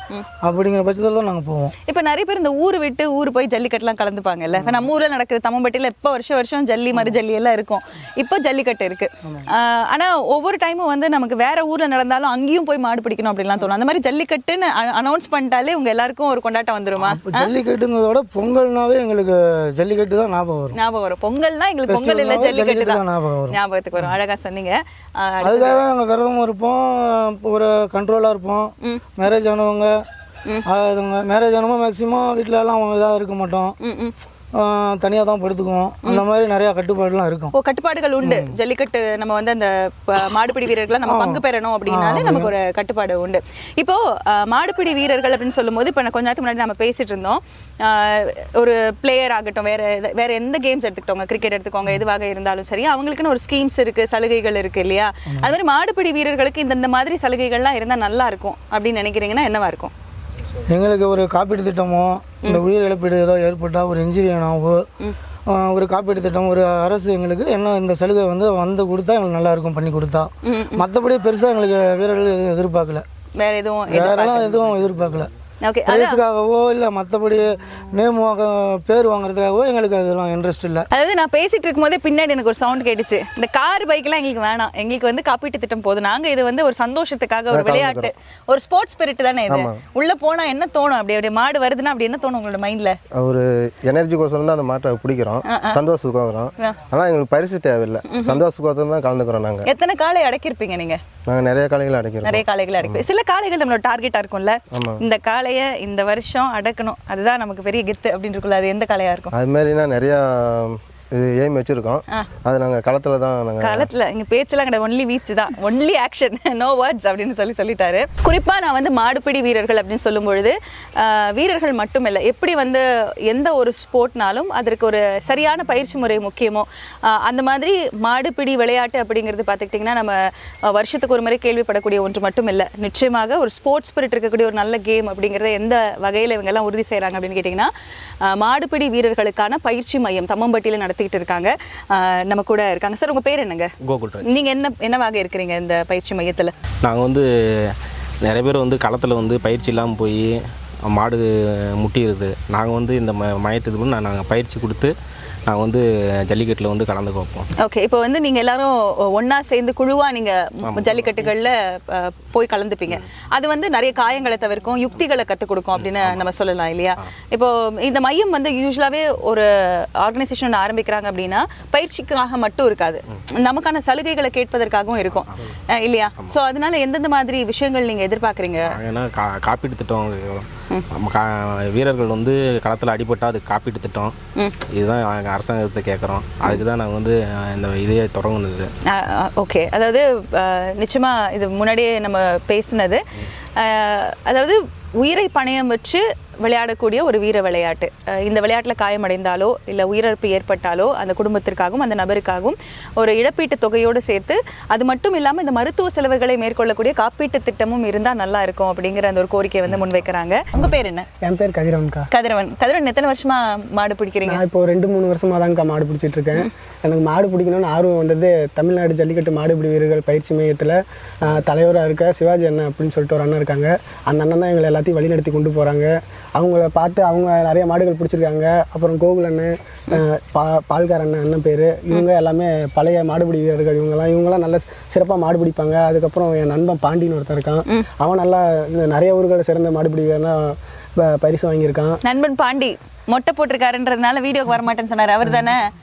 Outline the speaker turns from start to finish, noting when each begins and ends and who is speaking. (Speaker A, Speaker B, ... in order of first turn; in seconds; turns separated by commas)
Speaker A: 0.4-1.7, Speaker B: 1.9-17.5, Speaker A: 17.0-20.7, Speaker B: 20.7-25.8, Speaker A: 21.9-24.1, Speaker A: 25.4-30.0, Speaker A: 30.7-33.8, Speaker B: 33.8-34.1, Speaker A: 34.5-37.5, Speaker B: 37.5-59.9, Speaker A: 38.2-38.5, Speaker A: 41.0-42.5, Speaker A: 60.7-64.8, Speaker A: 65.5-73.0, Speaker B: 70.4-70.8, Speaker B: 73.4-74.5, Speaker A: 73.9-75.3, Speaker B: 75.6-76.2, Speaker A: 75.9-80.9, Speaker B: 80.9-93.0, Speaker C: 87.5-88.1, Speaker C: 89.5-89.8, Speaker C: 93.2-99.7, Speaker B: 95.5-95.8, Speaker B: 98.1-98.4, Speaker B: 99.6-101.0, Speaker C: 101.3-103.0, Speaker B: 102.2-109.3, Speaker C: 104.7-105.0, Speaker C: 109.3-113.9, Speaker B: 113.6-137.7, Speaker B: 138.2-143.7, Speaker D: 143.8-144.3, Speaker B: 144.2-146.5, Speaker D: 146.8-154.9, Speaker D: 155.5-157.5, Speaker B: 157.6-178.7, Speaker D: 160.7-161.3, Speaker D: 165.8-166.2, Speaker D: 178.7-184.1, Speaker D: 184.7-188.7, Speaker B: 188.9-193.0, Speaker B: 193.6-211.1, Speaker E: 210.6-212.1, Speaker B: 212.1-214.4, Speaker E: 214.2-242.0, Speaker B: 242.0-245.6